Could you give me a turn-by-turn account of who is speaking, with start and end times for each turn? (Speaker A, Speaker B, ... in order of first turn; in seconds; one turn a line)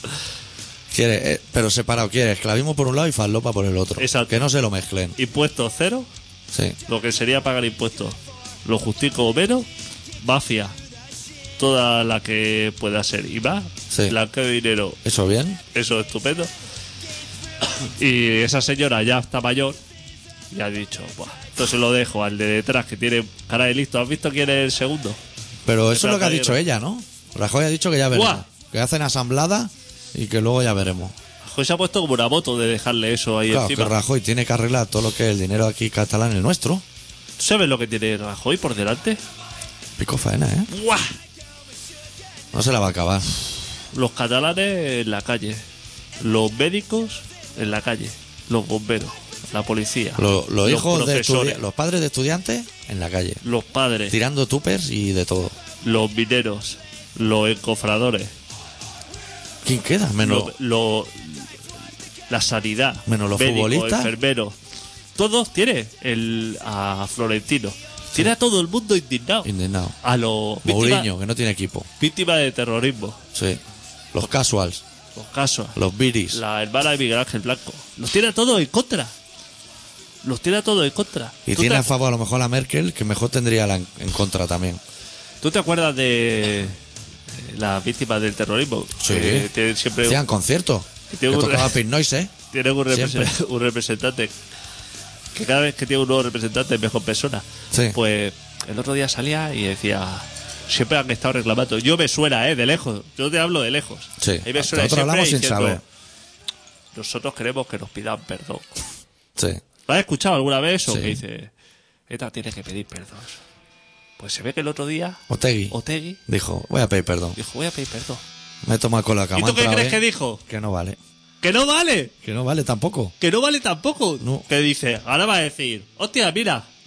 Speaker A: 0.9-5.1
Speaker B: 4.0-4.4
Speaker B: 5.2-6.1
Speaker A: 6.5-6.8
Speaker B: 6.9-9.7
Speaker B: 10.2-10.7
Speaker B: 11.6-15.0
Speaker A: 13.9-14.2
Speaker A: 15.0-15.6
Speaker B: 15.7-16.5
Speaker B: 18.0-19.8
Speaker B: 20.5-25.2
Speaker A: 25.6-31.1
Speaker B: 25.9-26.6
Speaker B: 28.1-28.4
Speaker B: 31.4-33.9
Speaker A: 33.5-36.8
Speaker B: 37.4-39.2
Speaker A: 40.0-40.7
Speaker B: 40.7-41.1
Speaker A: 42.5-43.4
Speaker B: 43.9-45.6
Speaker B: 46.2-51.6
Speaker A: 50.1-53.4
Speaker B: 53.4-54.1
Speaker A: 54.1-55.6
Speaker B: 55.8-58.3
Speaker A: 59.6-60.5
Speaker B: 60.2-61.5
Speaker B: 62.3-64.5
Speaker A: 63.1-64.1
Speaker B: 65.2-69.5
Speaker A: 69.4-69.9
Speaker B: 70.0-71.1
Speaker A: 70.6-71.9
Speaker B: 72.0-73.2
Speaker A: 73.3-73.6
Speaker A: 74.1-74.8
Speaker B: 75.1-75.8
Speaker A: 75.7-76.4
Speaker B: 76.3-79.1
Speaker B: 80.2-81.9
Speaker A: 81.5-84.8
Speaker B: 85.4-86.8
Speaker B: 87.3-90.2
Speaker A: 89.0-89.5
Speaker A: 90.0-92.3
Speaker B: 91.1-91.8
Speaker B: 92.5-94.3
Speaker A: 92.9-93.3
Speaker B: 95.3-105.8
Speaker A: 97.7-98.0
Speaker A: 104.2-105.8
Speaker B: 106.9-108.7
Speaker A: 109.4-109.6
Speaker B: 109.9-111.5
Speaker A: 110.9-111.2
Speaker B: 112.1-113.4
Speaker B: 114.2-116.2
Speaker A: 115.3-115.8
Speaker A: 116.3-117.4
Speaker B: 117.3-118.2
Speaker A: 118.6-121.0
Speaker B: 119.3-120.4
Speaker B: 121.4-122.1
Speaker A: 122.2-123.1
Speaker B: 123.2-126.7